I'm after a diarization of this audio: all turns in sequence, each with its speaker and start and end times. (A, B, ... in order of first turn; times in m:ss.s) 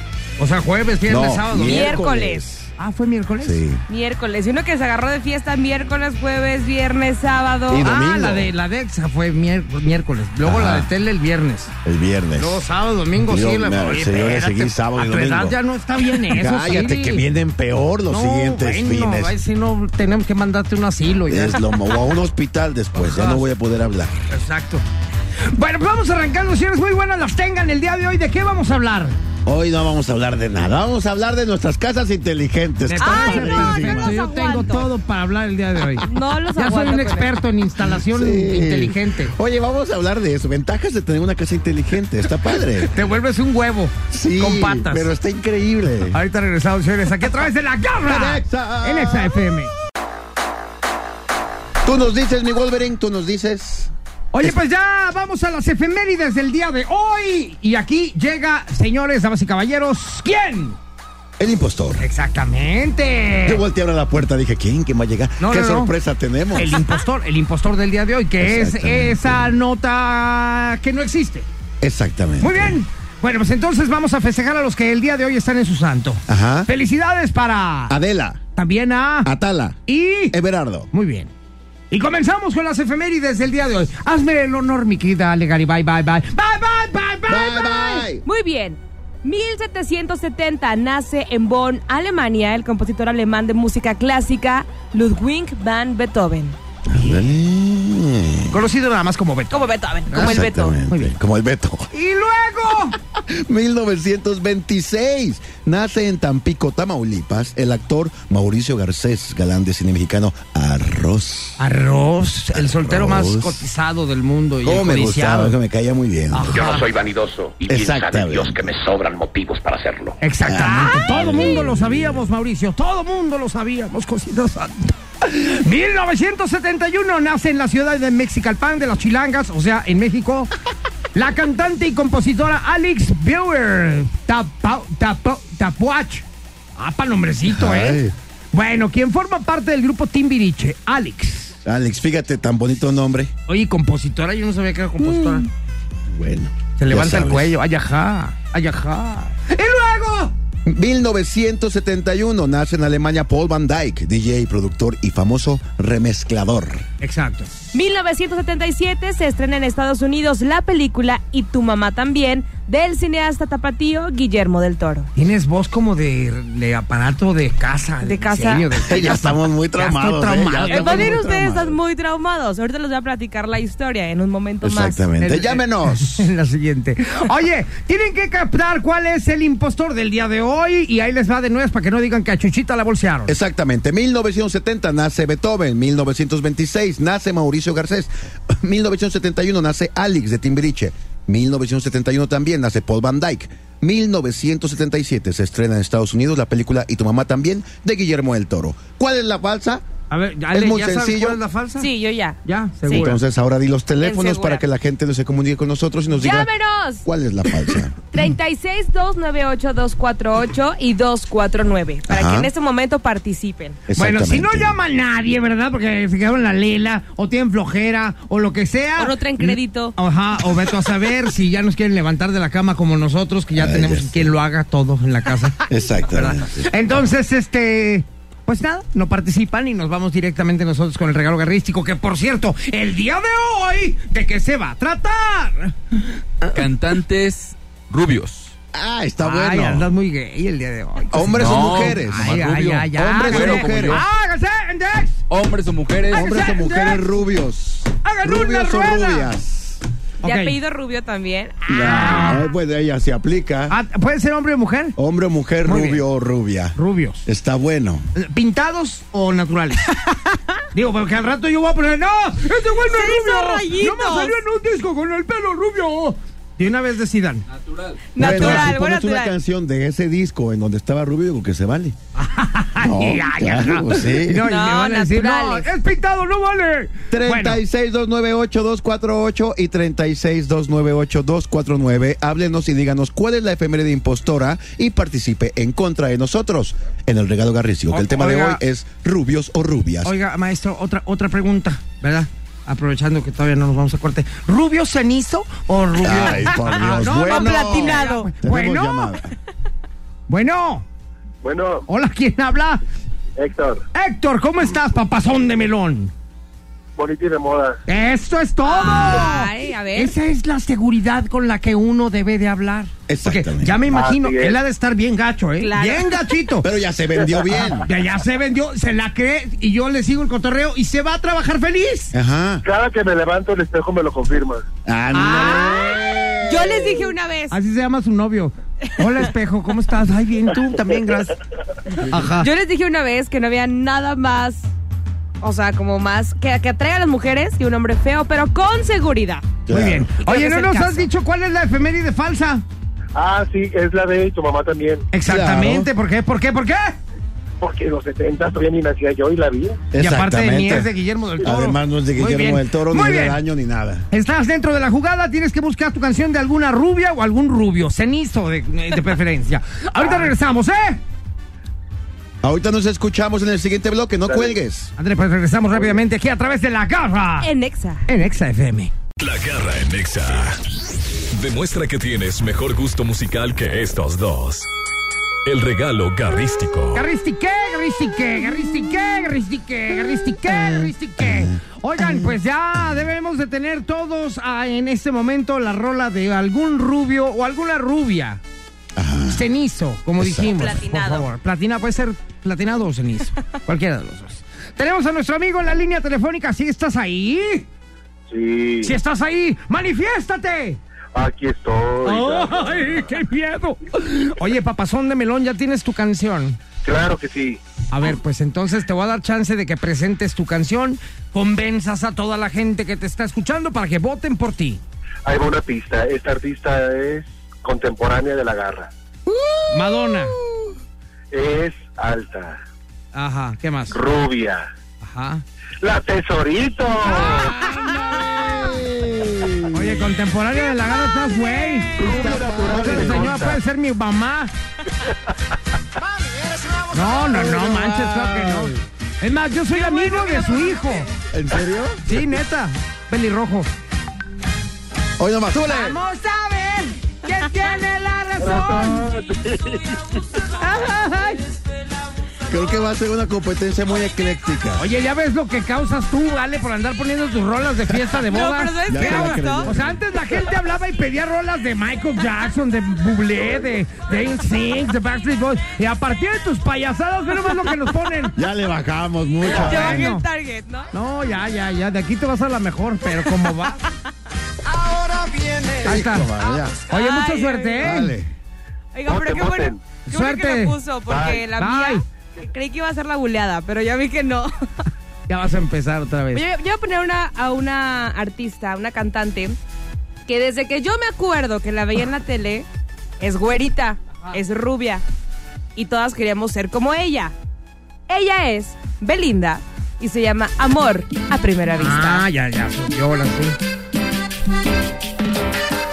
0:00.4-0:02.0 A
0:01.1-0:02.7 B
0:01.6-0:02.4 C
0:02.8-0:03.6 A
0:03.4-0:03.8 B
0:03.9-0:07.9 C
0:07.7-0:08.5 B
0:07.8-0:11.7 A
0:10.4-0:10.9 B
0:11.8-0:12.6 B
0:12.4-0:17.2 A
0:13.2-0:15.6 B
0:16.1-0:19.4 B
0:18.1-0:21.6 A
0:21.3-0:24.1 B
0:23.0-0:23.4 A
0:24.3-0:24.8 A
0:25.4-0:29.2 A
0:29.4-0:34.2 B
0:32.9-0:39.4 A
0:33.0-0:34.9 C
0:36.0-0:37.3 C
0:37.8-0:43.0 B
0:42.8-0:45.1 A
0:44.1-0:46.2 B
0:46.1-0:49.7 A
0:48.1-0:49.7 B
0:51.8-0:54.6 B
0:54.3-1:00.8 A
1:01.4-1:02.0 B
1:02.0-1:03.6 A
1:03.4-1:06.8 B
1:05.4-1:05.9 A
1:06.5-1:11.5 A
1:08.4-1:09.5 B
1:11.8-1:12.8 B
1:12.4-1:18.0 A
1:16.3-1:16.7 B
1:17.9-1:18.4 B
1:18.6-1:19.3 A
1:19.2-1:19.8 B
1:19.9-1:20.4 A
1:20.3-1:20.9 B
1:20.9-1:21.3 A
1:21.9-1:28.1 A
1:27.3-1:28.2 B
1:28.2-1:36.6 C
1:36.9-1:38.6 B
1:38.5-1:41.2 A
1:39.5-1:40.8 C
1:40.2-1:41.9 B
1:41.9-1:43.0 A
1:43.2-1:51.6 B
1:51.6-1:55.6 A
1:52.5-1:53.6 B
1:54.6-1:56.6 B
1:56.3-1:56.9 A
1:56.5-2:00.2 D
1:57.7-1:58.7 B
2:00.2-2:10.5 A
2:00.4-2:02.3 B
2:11.1-2:16.2 A
2:16.8-2:18.0 A
2:17.5-2:18.2 B
2:18.5-2:21.6 A
2:21.6-2:23.3 B
2:23.5-2:25.5 A
2:25.0-2:25.5 B
2:26.1-2:27.5 B
2:26.8-2:30.3 A
2:30.7-2:36.9 B
2:37.0-2:37.5 A
2:37.7-2:45.1 C
2:45.2-2:51.2 A
2:48.0-2:48.9 C
2:48.9-2:51.8 B
2:50.7-2:55.0 C
2:54.6-2:56.3 B
2:55.2-3:03.4 A
3:03.3-3:19.8 B
3:20.1-3:21.9 A
3:20.5-3:21.4 B
3:21.8-3:23.1 C
3:22.4-3:23.2 A
3:22.9-3:26.5 B
3:24.0-3:24.6 C
3:26.2-3:27.0 C
3:27.0-3:28.0 B
3:28.1-3:33.8 C
3:32.1-3:32.5 B
3:33.9-3:34.8 B
3:34.0-3:56.2 A
3:39.0-3:40.0 C
3:43.6-3:44.3 B
3:45.7-3:46.6 B
3:56.5-3:58.6 E
3:58.7-3:59.9 B
3:59.2-4:05.2 A
4:01.1-4:04.0 B
4:01.3-4:02.5 E
4:03.2-4:04.0 E
4:05.3-4:06.2 E
4:06.1-4:09.8 B
4:06.1-4:07.0 A
4:08.0-4:09.3 A
4:10.2-4:12.3 C
4:10.2-4:10.6 A
4:11.7-4:13.8 B
4:11.8-4:12.5 A
4:13.7-4:15.0 A
4:15.0-4:18.1 B
4:15.6-4:16.0 A
4:16.8-4:17.3 A
4:18.2-4:20.0 A
4:20.7-4:27.4 A
4:22.9-4:24.4 C
4:28.1-4:29.4 C
4:28.2-4:28.8 A
4:28.2-4:32.0 B
4:32.2-4:37.6 A
4:32.8-4:34.5 B
4:34.4-4:35.7 C
4:37.1-4:50.1 B
4:47.9-4:48.6 A
4:50.0-4:59.1 A
4:56.0-4:59.3 B
4:57.0-4:58.3 C
5:00.3-5:00.8 A
5:01.4-5:01.9 F
5:01.9-5:02.8 A
5:03.4-5:03.8 F
5:03.9-5:06.1 A
5:07.0-5:07.8 F
5:07.9-5:16.7 A
5:08.6-5:10.2 C
5:08.8-5:09.3 B
5:13.1-5:13.9 B
5:13.9-5:14.6 F
5:15.6-5:16.3 C
5:16.6-5:17.9 B
5:17.8-5:22.1 A
5:22.1-5:22.6 B
5:22.6-5:24.6 F
5:24.9-5:27.1 B
5:25.1-5:25.9 A
5:25.3-5:27.6 C
5:27.5-5:31.4 A
5:32.1-5:32.5 A
5:32.4-5:34.7 C
5:35.4-5:39.6 C
5:39.7-5:40.1 B
5:39.7-5:42.6 A
5:40.2-5:41.1 C
5:43.2-5:45.1 F
5:45.1-5:47.0 A
5:45.2-5:45.9 B
5:47.6-5:49.8 F
5:49.9-5:54.1 B
5:50.0-5:53.4 A
5:54.1-6:01.0 A
6:02.4-6:04.9 B
6:04.3-6:04.5 F
6:05.0-6:07.5 A
6:07.4-6:08.0 C
6:08.1-6:08.9 A
6:09.2-6:10.6 G
6:11.3-6:14.7 G
6:15.4-6:17.0 G
6:16.9-6:28.4 A
6:20.5-6:22.4 B
6:29.0-6:29.4 B
6:29.3-6:37.7 A
6:30.2-6:30.5 B
6:30.5-6:31.3 C
6:38.3-6:39.0 F
6:38.8-6:40.8 A
6:41.1-6:43.1 F
6:42.0-6:46.6 A
6:46.8-6:47.6 F
6:47.9-6:54.8 A
6:55.3-6:58.9 F
6:59.3-7:00.7 B
6:59.7-7:00.4 A
7:01.3-7:02.6 F
7:03.1-7:04.0 A
7:03.9-7:04.7 F
7:05.0-7:05.4 A
7:05.8-7:07.6 F
7:07.1-7:10.1 B
7:07.2-7:07.7 A
7:09.7-7:12.1 A
7:10.9-7:11.9 C
7:12.0-7:13.6 B
7:12.0-7:13.6 F
7:12.6-7:14.5 A
7:16.6-7:18.8 B
7:16.9-7:21.1 A
7:19.8-7:21.0 C
7:21.3-7:22.2 B
7:22.1-7:23.7 A
7:25.2-7:26.0 B
7:25.5-7:29.1 A
7:28.4-7:30.0 F
7:30.5-7:31.4 A
7:32.5-7:34.8 B
7:34.8-7:48.4 A
7:38.3-7:39.7 C
7:38.9-7:39.9 B
7:48.4-7:50.1 B
7:49.4-7:50.9 C
7:49.4-7:50.2 A
7:50.9-7:53.8 A
7:55.7-7:56.8 B
7:55.8-7:56.3 A
7:56.9-7:57.9 C
7:56.9-7:58.1 A
7:57.8-7:58.3 B
7:58.9-8:04.6 C
7:59.1-7:59.8 F
8:00.1-8:00.8 A
8:01.1-8:01.4 F
8:01.6-8:02.0 A
8:05.3-8:06.4 A
8:06.3-8:09.6 C
8:10.3-8:12.7 C
8:13.2-8:15.0 C
8:15.8-8:17.3 C
8:18.1-8:22.2 C
8:21.8-8:23.6 A